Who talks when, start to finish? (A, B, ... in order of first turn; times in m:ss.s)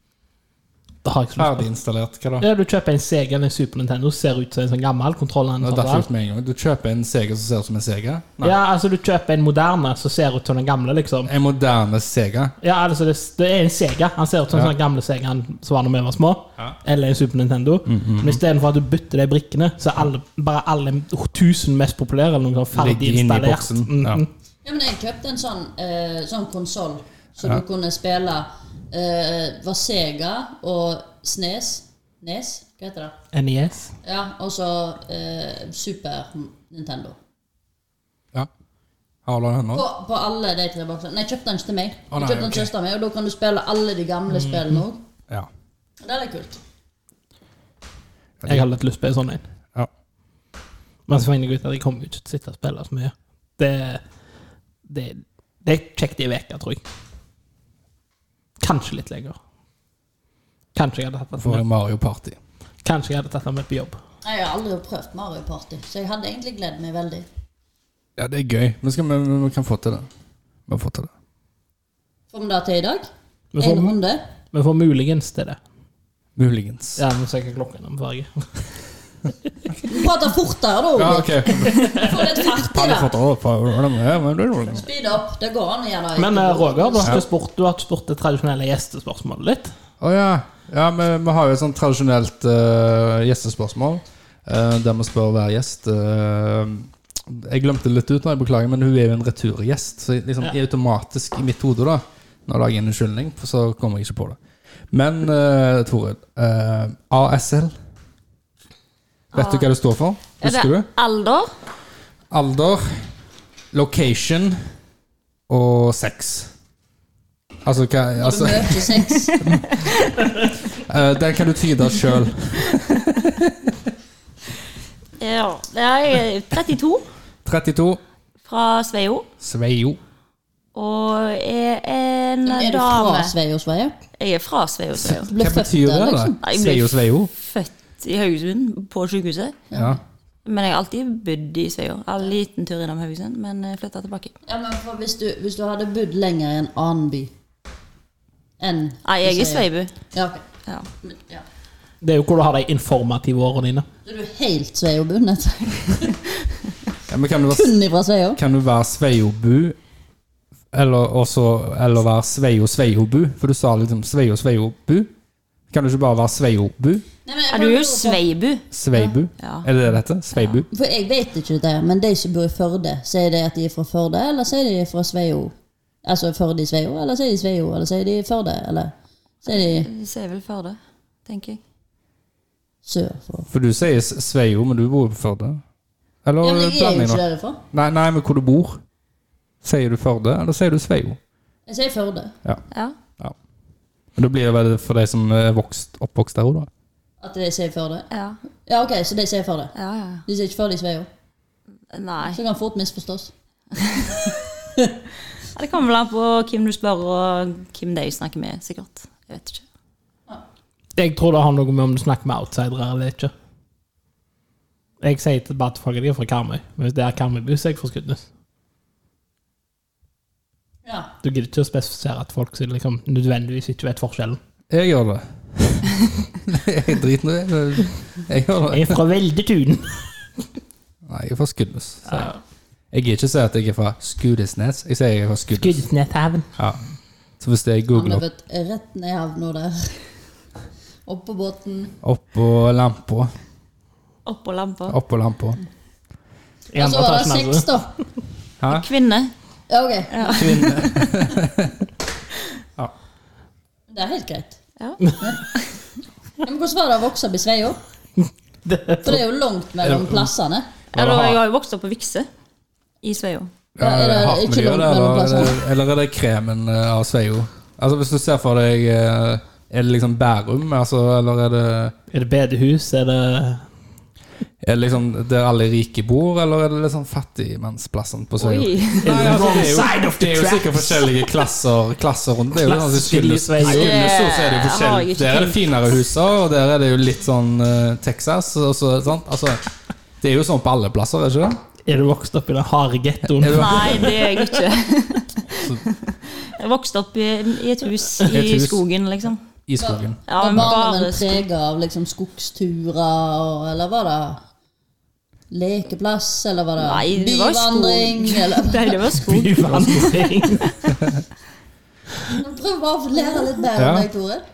0:01.0-0:01.6 A
0:01.4-0:02.4 B
0:02.4-0:06.0 A
0:05.6-0:08.6 B
0:08.4-0:11.3 A
0:11.3-0:12.5 B
0:12.6-0:24.3 A
0:17.9-0:18.4 B
0:22.7-0:24.2 B
0:24.6-0:33.1 C
0:33.3-0:33.9 A
0:34.0-0:37.2 C
0:39.2-0:39.8 B
0:39.7-0:45.0 C
0:42.1-0:42.7 B
0:46.0-0:46.6 C
0:48.4-0:48.6 B
0:48.5-0:49.4 A
0:51.1-0:54.0 A
0:54.9-0:56.8 A
0:58.6-0:59.4 A
1:00.7-1:01.6 A
1:01.4-1:02.4 B
1:02.8-1:04.0 A
1:04.2-1:07.3 C
1:08.2-1:10.1 B
1:10.7-1:11.1 B
1:12.3-1:13.1 C
1:13.5-1:13.9 A
1:13.6-1:14.2 C
1:14.5-1:15.6 A
1:16.4-1:17.0 B
1:17.0-1:18.6 A
1:19.9-1:23.1 C
1:21.0-1:24.9 B
1:21.8-1:22.1 A
1:24.7-1:27.2 C
1:26.2-1:29.7 A
1:30.0-1:44.4 B
1:44.9-1:47.7 B
1:49.3-1:50.9 B
1:49.3-1:49.7 D
1:50.4-1:51.5 D
1:52.3-1:53.1 B
1:53.7-1:54.6 B
1:55.5-1:56.5 B
1:57.6-1:59.6 B
1:58.2-1:59.4 C
1:59.1-2:00.3 D
2:00.7-2:03.7 B
2:02.7-2:03.2 D
2:05.2-2:07.0 D
2:07.4-2:08.0 B
2:08.4-2:09.3 D
2:09.4-2:10.0 B
2:10.7-2:13.3 D
2:12.4-2:13.9 C
2:14.2-2:15.3 D
2:15.1-2:16.4 C
2:15.3-2:17.3 B
2:16.4-2:19.6 D
2:19.7-2:20.0 C
2:19.7-2:20.0 B
2:20.4-2:24.3 D
2:24.4-2:27.3 C
2:28.6-2:30.4 C
2:29.0-2:29.9 D
2:31.0-2:31.4 C
2:32.0-2:33.9 A
2:34.0-2:36.3 C
2:37.1-2:37.7 B
2:37.5-2:38.4 C
2:38.4-2:39.8 B
2:40.7-2:45.1 B
2:45.7-2:47.0 B
2:47.2-2:48.2 C
2:47.5-2:49.7 D
2:48.7-2:50.7 B
2:50.4-2:50.6 D
2:50.7-2:59.9 C
2:59.5-3:01.6 D
3:02.8-3:03.5 C
3:03.5-3:05.6 B
3:06.2-3:07.2 B
3:06.4-3:07.6 C
3:07.7-3:08.8 B
3:09.6-3:11.2 B
3:11.7-3:12.3 C
3:14.2-3:16.7 B
3:17.2-3:18.1 C
3:18.1-3:18.4 D
3:18.6-3:19.7 C
3:19.7-3:20.2 D
3:20.2-3:21.1 C
3:21.9-3:22.4 D
3:22.3-3:23.3 C
3:23.8-3:24.3 D
3:25.5-3:29.6 D
3:31.0-3:33.3 A
3:35.0-3:38.2 A
3:41.2-3:44.4 A
3:44.7-3:49.0 B
3:48.7-3:50.1 A
3:51.0-3:52.3 B
3:52.1-3:52.4 A
3:52.9-3:55.8 B
3:55.6-3:56.5 A
3:57.4-3:58.2 B
3:57.9-4:00.0 C
4:01.0-4:01.9 C
4:02.0-4:03.3 B
4:04.2-4:05.0 D
4:04.9-4:05.6 B
4:06.7-4:07.7 A
4:06.8-4:07.9 C
4:08.6-4:08.8 B
4:08.7-4:09.3 D
4:09.7-4:10.5 C
4:10.1-4:11.3 D
4:10.3-4:11.9 B
4:13.9-4:14.6 C
4:14.8-4:15.7 D
4:16.4-4:17.8 C
4:18.6-4:19.2 A
4:19.0-4:20.7 C
4:19.9-4:20.2 B
4:20.9-4:21.4 B
4:20.9-4:22.3 D
4:23.0-4:23.5 D
4:23.8-4:31.9 B
4:23.8-4:25.6 C
4:32.1-4:33.6 A
4:34.6-4:49.6 B
4:38.4-4:39.4 D
4:39.0-4:41.2 A
4:42.6-4:44.1 A
4:43.6-4:45.6 D
4:50.2-4:51.6 B
4:51.8-4:54.6 A
4:53.3-4:54.1 B
4:53.5-4:59.4 D
4:55.5-4:55.8 B
4:58.2-4:58.8 B
4:59.7-5:00.7 B
4:59.8-5:04.4 C
5:00.3-5:01.4 D
5:05.5-5:09.0 C
5:06.8-5:11.0 D
5:09.1-5:10.8 A
5:12.4-5:14.4 C
5:13.8-5:14.1 B